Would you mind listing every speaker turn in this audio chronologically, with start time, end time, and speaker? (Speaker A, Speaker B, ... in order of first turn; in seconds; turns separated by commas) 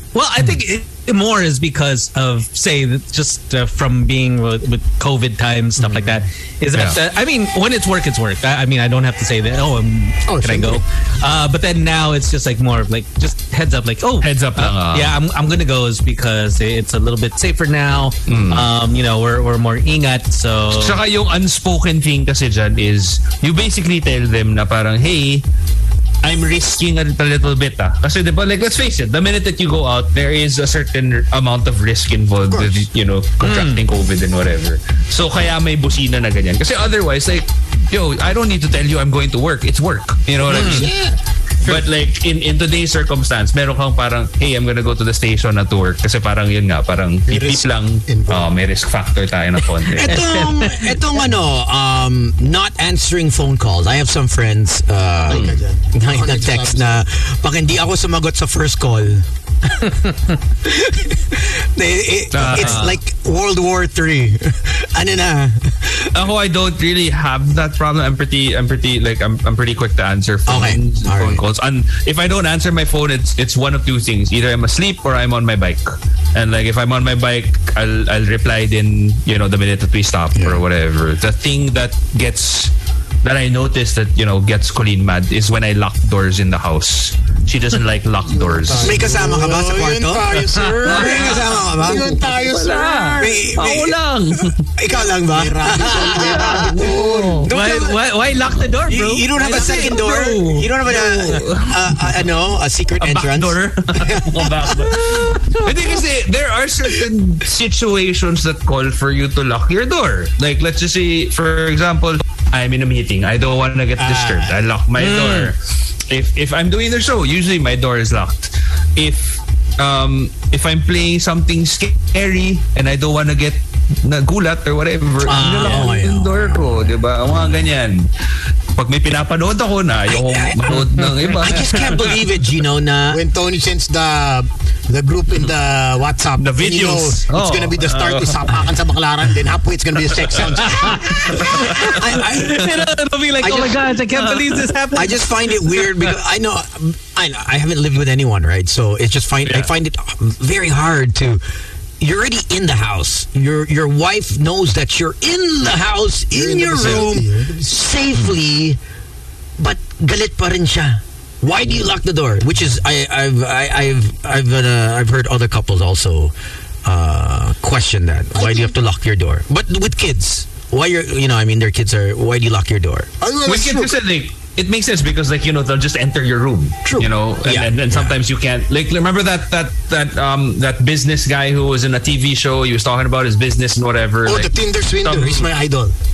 Speaker A: 0.1-21.0, Speaker B: 6.7-7.0, Speaker C: 10.3-10.8, Speaker B: 14.2-15.1, Speaker B: 18.3-18.6, Speaker B: 20.7-25.4, Speaker B: 26.2-40.9, Speaker C: 32.5-32.8, Speaker A: 33.4-33.8, Speaker A: 40.5-40.8, Speaker C: 40.5-41.2, Speaker B: 41.6-50.1, Speaker C: 47.3-48.5, Speaker D: 49.9-60.0, Speaker A: 50.0-51.0, Speaker C: 55.3-57.0, Speaker B: 55.3-55.6, Speaker D: 60.6-66.1, Speaker B: 62.3-63.0, Speaker A: 62.5-62.9, Speaker B: 66.1-89.0, Speaker D: 70.5-71.4, Speaker D: 80.3-80.6, Speaker C: 88.2-93.5, Speaker D: 88.7-92.2, Speaker B: 90.9-91.4, Speaker B: 92.3-94.6, Speaker D: 93.2-94.0, Speaker D: 94.8-98.0, Speaker C: 94.9-97.5, Speaker B: 96.2-97.4, Speaker A: 97.5-100.7, Speaker D: 98.8-104.8, Speaker B: 100.8-101.8, Speaker B: 103.0-115.6, Speaker A: 104.9-105.8, Speaker C: 114.0-114.5, Speaker A: 115.0-115.5, Speaker B: 116.1-128.1, Speaker D: 125.2-127.7, Speaker B: 128.8-132.1, Speaker D: 130.1-133.2, Speaker C: 133.1-141.3, Speaker B: 136.4-138.7, Speaker B: 140.1-140.4, Speaker A: 140.8-145.9, Speaker D: 141.6-142.8, Speaker D: 143.4-144.0, Speaker D: 144.9-151.4, Speaker B: 149.4-149.7, Speaker D: 152.0-158.8, Speaker C: 156.3-157.7, Speaker D: 159.6-166.3, Speaker D: 166.8-173.1, Speaker C: 168.3-168.7, Speaker C: 173.2-173.9, Speaker B: 173.4-185.5, Speaker D: 177.4-178.1, Speaker C: 184.2-185.9